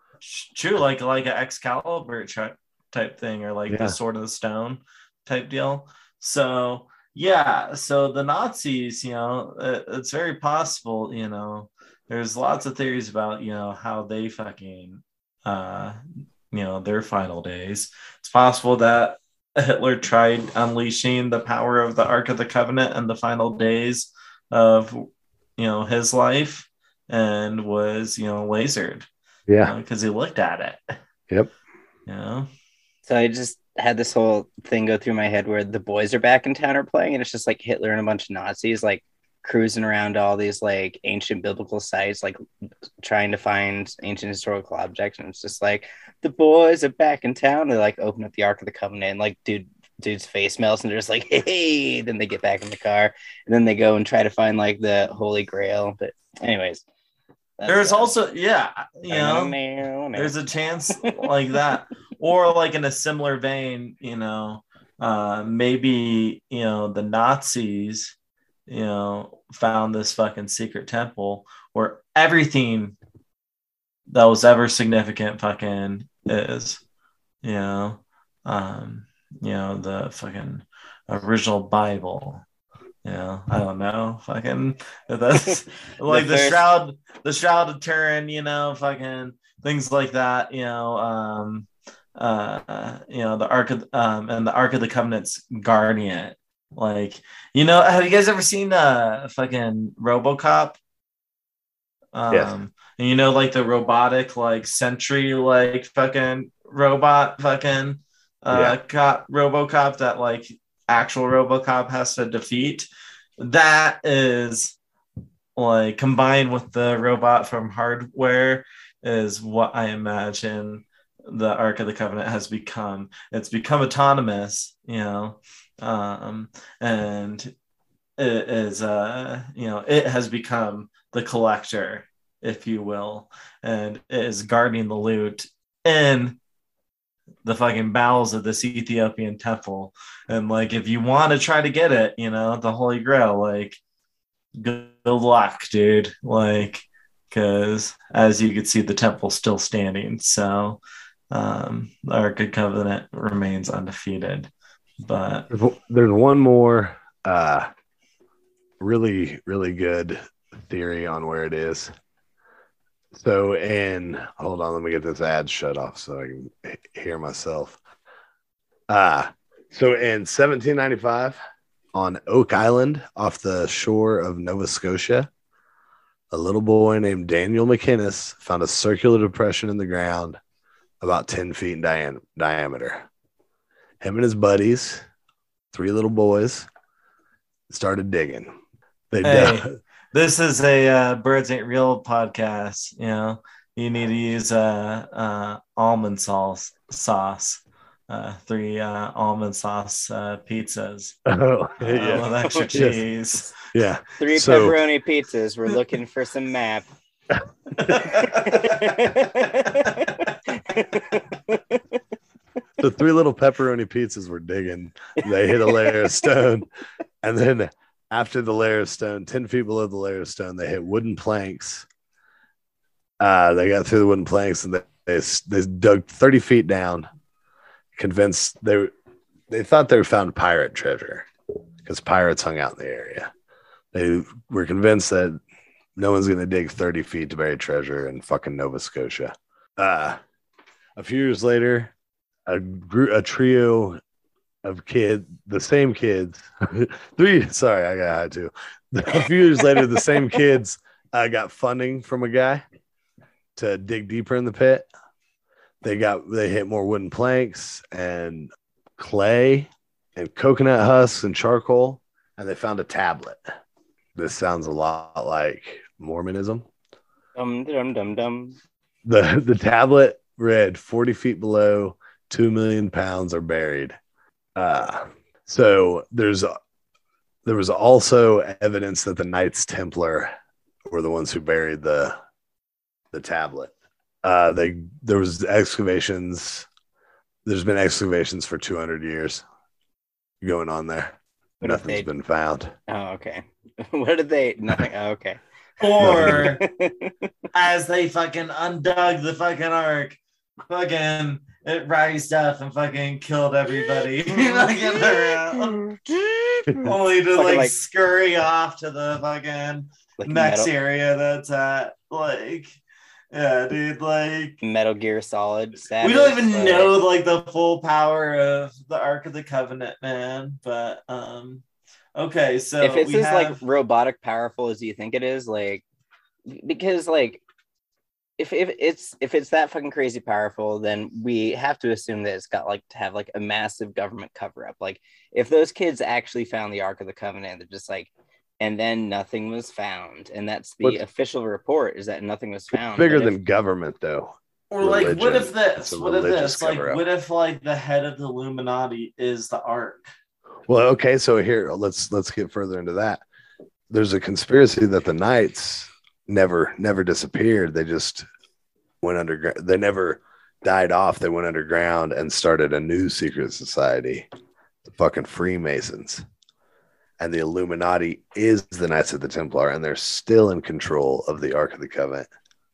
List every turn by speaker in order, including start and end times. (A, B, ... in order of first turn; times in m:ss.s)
0:00.2-0:16.0 A
0:03.7-0:04.0 B
0:16.5-0:29.1 A
0:29.5-0:29.7 B
0:29.6-0:30.9 A
0:32.1-0:32.5 A
0:33.1-0:42.4 C
0:43.0-0:56.8 C
0:57.6-0:58.1 C
0:57.7-0:59.6 A
0:59.1-1:00.3 C
1:00.1-1:08.1 A
1:08.7-1:13.0 A
1:14.1-1:16.8 A
1:17.4-1:22.4 A
1:23.0-1:40.8 A
1:26.0-1:26.6 C
1:42.1-1:52.9 A
1:48.5-1:48.8 B
1:53.4-1:54.7 A
1:55.6-2:07.5 A
2:08.2-2:16.4 A
2:17.4-2:23.8 A
2:24.6-2:30.8 A
2:31.3-2:34.5 A
2:35.0-2:35.5 A
2:35.5-2:37.7 B
2:38.8-2:41.9 B
2:43.1-2:47.8 B
2:48.9-2:51.4 B
2:51.9-2:55.3 B
2:56.3-3:00.4 B
3:01.0-3:03.0 B
3:04.0-3:05.0 B
3:05.7-3:06.7 B
3:07.7-3:08.5 B
3:09.1-3:09.7 B
3:09.2-3:21.2 A
3:21.2-3:23.0 B
3:21.8-3:23.5 A
3:22.1-3:22.7 C
3:23.6-3:24.8 B
3:24.2-3:26.9 C
3:27.8-3:29.2 A
3:28.0-3:31.8 C
3:32.8-3:36.7 B
3:35.7-3:36.0 C
3:37.2-3:41.8 B
3:43.2-3:47.1 B
3:48.0-3:48.9 B
3:49.5-3:51.3 B
3:51.8-3:53.3 B
3:53.9-3:55.4 B
3:56.0-4:00.2 B
4:01.0-4:01.9 B
4:02.4-4:04.0 B
4:04.6-4:12.6 B
4:13.6-4:14.9 B
4:15.8-4:23.4 B
4:24.1-4:26.6 B
4:27.4-4:28.6 C
4:29.0-4:34.0 B
4:34.6-4:36.5 B
4:37.4-4:40.3 B
4:40.9-4:42.2 B
4:43.1-4:43.7 B
4:44.2-4:46.7 B
4:47.4-4:49.4 B
4:50.4-4:52.7 B
4:51.6-4:52.1 C
4:52.9-4:55.4 C
4:55.8-4:56.6 A
4:56.0-4:56.6 B
4:56.2-4:57.1 C
4:57.5-5:06.0 A
5:06.7-5:12.8 A
5:07.3-5:07.7 C
5:10.2-5:10.7 C
5:13.3-5:14.6 A
5:14.6-5:17.0 C
5:16.0-5:21.6 A
5:22.2-5:23.6 A
5:22.8-5:25.8 C
5:26.5-5:27.4 C
5:28.4-5:38.1 C
5:38.6-5:43.4 C
5:42.7-5:47.0 B
5:44.7-5:50.1 A
5:50.7-5:53.2 B
5:53.9-5:58.3 B
5:59.0-6:04.3 B
6:04.8-6:06.2 B
6:07.2-6:12.3 B